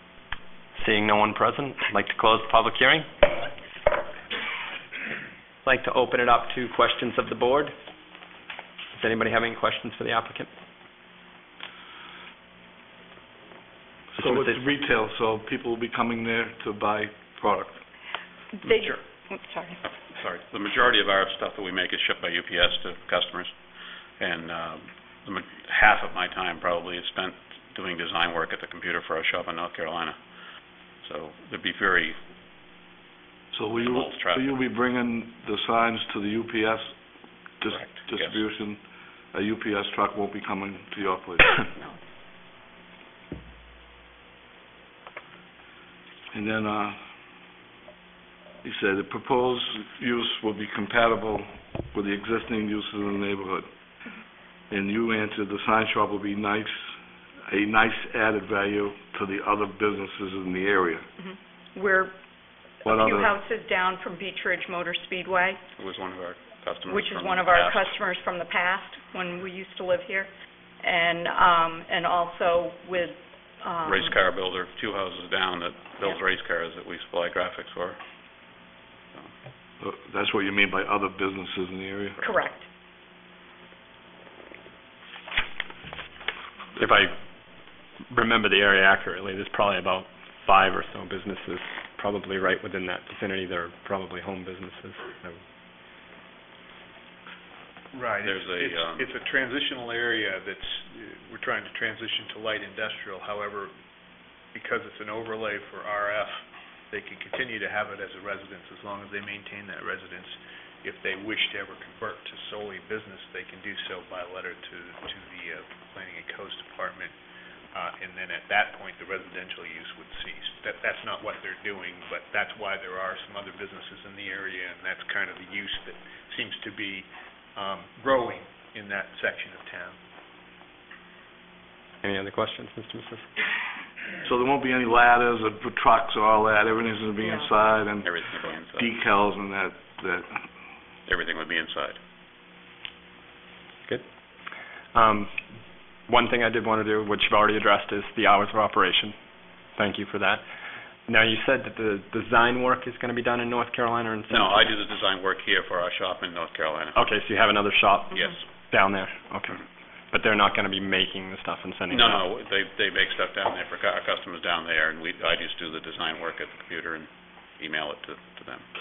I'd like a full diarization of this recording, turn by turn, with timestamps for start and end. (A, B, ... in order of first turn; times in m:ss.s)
0:00.7-0:03.1 A
0:05.6-0:07.7 A
0:08.9-0:10.5 A
0:14.1-0:17.8 B
0:14.2-0:14.6 A
0:18.6-0:19.8 C
0:19.8-0:30.4 D
0:31.0-0:32.2 D
0:33.5-0:36.9 B
0:33.8-0:34.6 D
0:37.6-0:41.6 B
0:37.7-0:38.4 D
0:46.3-0:47.0 B
0:48.6-0:53.7 B
0:54.7-0:56.8 B
0:57.5-1:01.0 B
1:01.2-1:02.2 C
1:02.8-1:05.6 C
1:02.8-1:03.4 B
1:05.8-1:08.0 D
1:06.9-1:10.3 C
1:10.8-1:14.2 C
1:13.8-1:18.0 D
1:19.8-1:22.2 B
1:22.2-1:22.6 C
1:26.8-1:27.1 A
1:28.1-1:35.4 A
1:37.9-1:43.7 E
1:38.2-1:39.1 D
1:44.5-1:57.1 E
1:57.7-2:10.0 E
2:12.0-2:13.3 A
2:14.2-2:18.2 B
2:17.2-2:17.5 C
2:18.0-2:18.9 D
2:18.7-2:20.4 B
2:21.1-2:22.0 D
2:24.9-2:25.3 A
2:26.1-2:29.1 A
2:29.8-2:30.4 A
2:31.1-2:34.7 A
2:34.3-2:37.1 D
2:36.9-2:42.2 A
2:38.1-2:38.4 D
2:41.9-2:48.6 D